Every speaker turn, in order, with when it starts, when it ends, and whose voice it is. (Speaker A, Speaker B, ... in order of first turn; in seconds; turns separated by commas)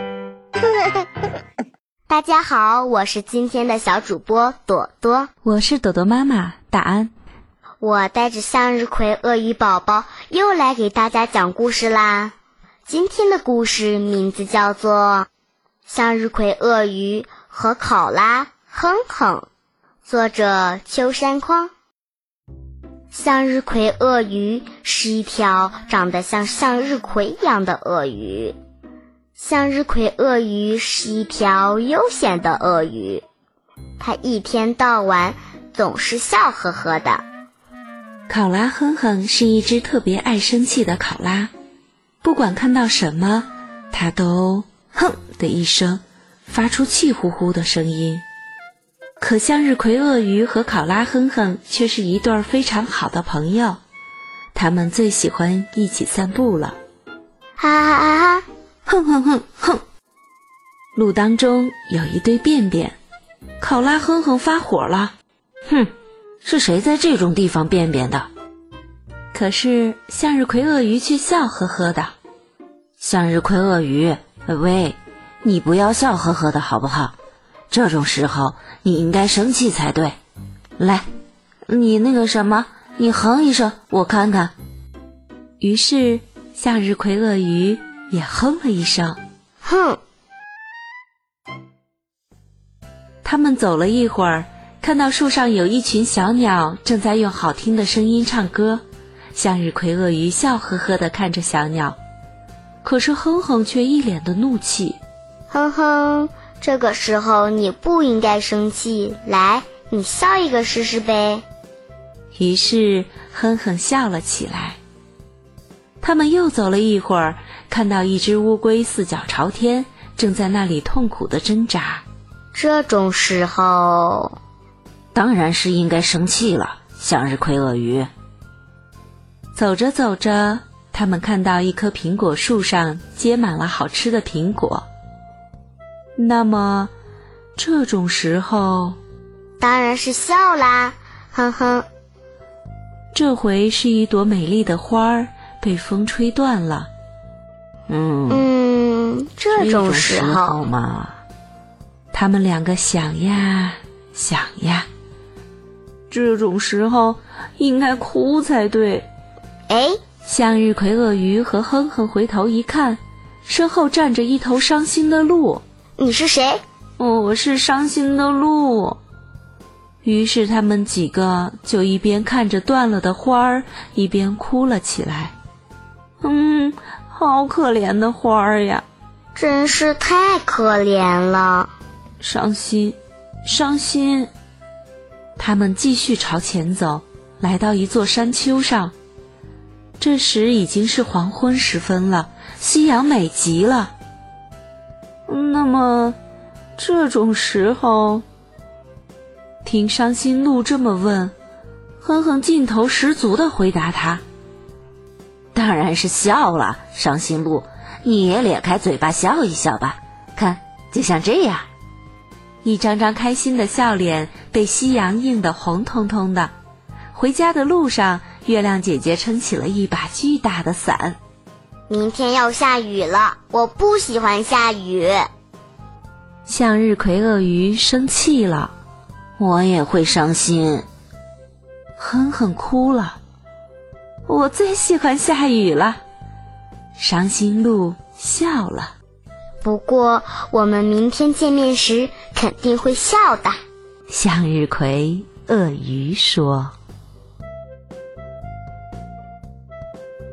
Speaker A: 2.1-5.3, Speaker B: 5.5-7.1, Speaker A: 7.8-12.3, Speaker A: 12.8-15.3, Speaker A: 15.9-19.5, Speaker A: 20.1-21.7, Speaker A: 23.1-28.6, Speaker A: 29.4-33.2, Speaker A: 34.0-37.2, Speaker B: 38.3-41.5, Speaker B: 42.2-48.2, Speaker B: 49.2-53.8, Speaker B: 54.5-56.8, Speaker A: 57.6-58.4, Speaker B: 58.9-59.8, Speaker B: 61.0-63.0, Speaker B: 63.6-65.1, Speaker B: 66.4-68.3, Speaker B: 69.3-72.1, Speaker B: 73.0-77.1, Speaker B: 77.7-80.2, Speaker B: 80.8-81.0, Speaker B: 81.7-84.5, Speaker B: 85.6-89.2, Speaker A: 89.6-90.0, Speaker B: 93.2-98.8, Speaker B: 99.3-102.0, Speaker B: 102.8-105.0, Speaker A: 105.5-111.4, Speaker B: 112.3-114.8, Speaker B: 116.0-122.0, Speaker A: 122.5-124.3, Speaker B: 125.1-128.1, Speaker B: 129.5-134.8, Speaker B: 136.2-136.9, Speaker B: 137.6-139.0, Speaker A: 139.6-141.9, Speaker B: 143.1-146.9, Speaker B: 147.9-148.4, Speaker A: 148.3-150.6, Speaker B: 149.5-151.2, Speaker B: 152.1-154.9, Speaker B: 156.1-159.1, Speaker A: 159.7-160.0, Speaker B: 160.2-165.6, Speaker A: 166.0-166.6, Speaker B: 167.0-169.0, Speaker B: 170.0-175.3, Speaker B: 176.2-178.8, Speaker A: 179.3-181.7, Speaker B: 182.2-184.3, Speaker B: 185.4-188.9, Speaker B: 190.0-193.9, Speaker B: 195.3-196.2, Speaker B: 196.8-198.2, Speaker B: 199.6-201.3, Speaker B: 202.0-204.2, Speaker B: 205.5-211.7, Speaker B: 212.6-216.5, Speaker B: 217.1-221.2, Speaker A: 221.9-225.3, Speaker B: 226.5-228.7, Speaker B: 229.4-230.8, Speaker B: 232.0-233.2, Speaker B: 234.3-236.0, Speaker B: 237.0-238.9, Speaker A: 239.6-243.6, Speaker B: 244.1-246.8